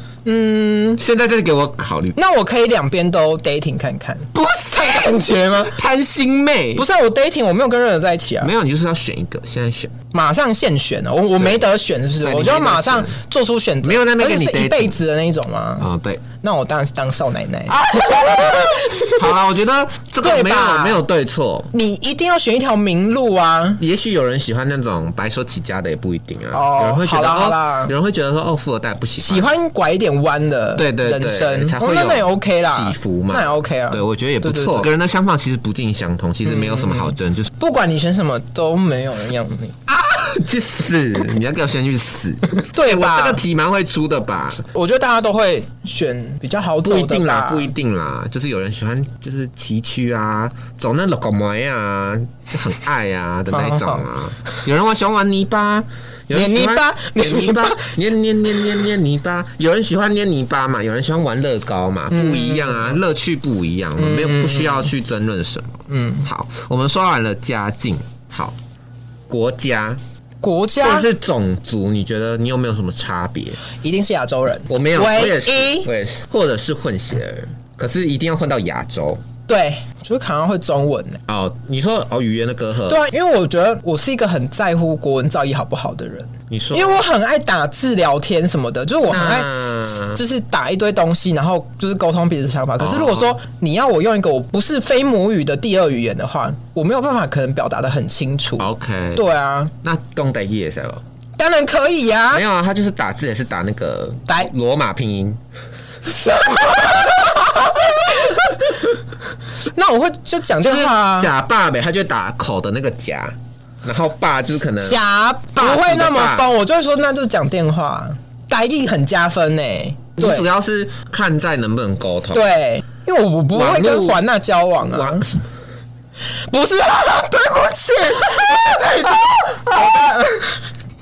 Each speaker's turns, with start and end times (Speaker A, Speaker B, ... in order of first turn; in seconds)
Speaker A: 0.2-1.0, 2.1-5.8, 6.8-8.5, 10.1-15.9, 16.4-19.2, 20.2-21.0, 21.7-23.8, 26.5-27.9, 29.2-34.9, 36.4-39.8, 42.6-43.4, 44.7-47.7, 53.5-54.6, 56.3-58.0, 58.5-58.9, 62.1-63.0, 64.0-64.9, 65.9-66.3, 70.4-71.1, 73.7-75.9, 79.5-81.2, 82.9-99.7, 101.4-102.4, 106.1-108.8, 109.6-111.3, 114.8-120.5, 122.3-125.2, 126.5-130.6
Speaker B: 1.0-2.2, 4.3-5.1, 5.6-6.8, 8.4-9.9, 11.4-11.6, 12.2-13.2, 13.8-15.0, 15.8-16.2, 17.7-21.7, 23.8-29.5, 30.8-37.5, 39.9-44.6, 46.8-68.5, 69.3-70.0, 70.8-73.6, 74.7-79.2, 81.3-83.0, 86.5-87.0, 89.1-90.2, 92.8-93.4, 98.6-99.2, 99.8-101.0, 102.3-105.4, 110.6-115.0, 115.5-116.5, 120.2-122.4, 123.5-124.2, 124.8-125.3